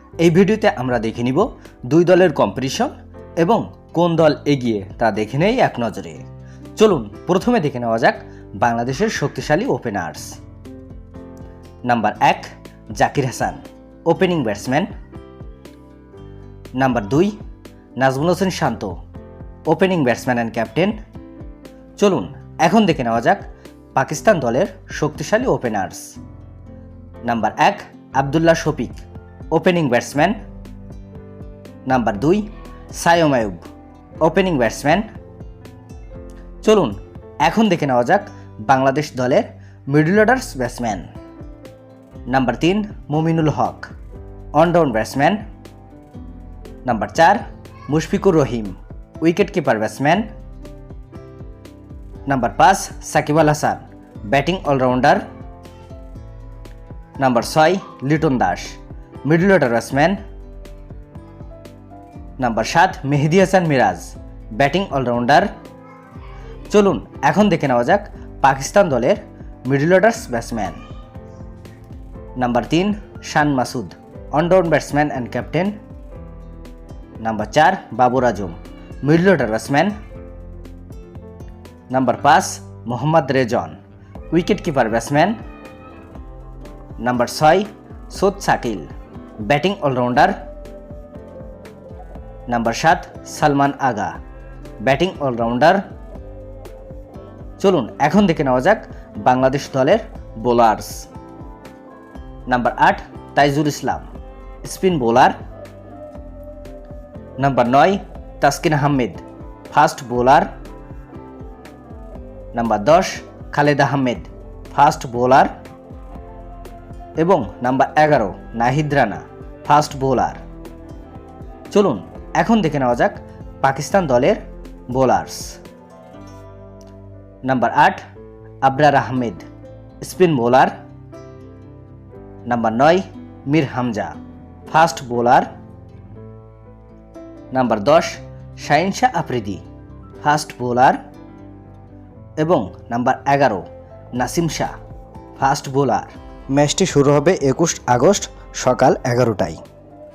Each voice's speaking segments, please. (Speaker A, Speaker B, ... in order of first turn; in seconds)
Speaker A: 0.2-6.2, 6.8-10.3, 11.9-14.9, 16.8-17.3, 18.0-18.9, 19.7-21.0, 22.0-23.4, 23.9-26.1, 27.3-30.4, 31.9-33.6, 34.2-35.1, 36.6-41.1, 42.3-43.9, 44.6-45.4, 46.9-50.3, 52.3-55.2, 57.2-58.8, 59.3-60.2, 62.4-65.5, 66.7-70.8, 72.4-75.8, 77.2-80.0, 81.9-83.8, 84.3-85.4, 87.0-88.9, 89.4-90.4, 92.5-94.2, 94.8-95.8, 97.6-101.1, 102.5-104.1, 104.6-105.3, 107.4-110.5, 112.5-115.5, 117.2-120.4, 121.7-124.4, 124.9-125.5, 127.5-128.0, 128.6-129.4, 130.0-130.7, 132.5-134.1, 134.7-135.5, 137.5-139.6, 140.2-141.0, 142.4-143.6, 144.2-144.7, 145.4-149.6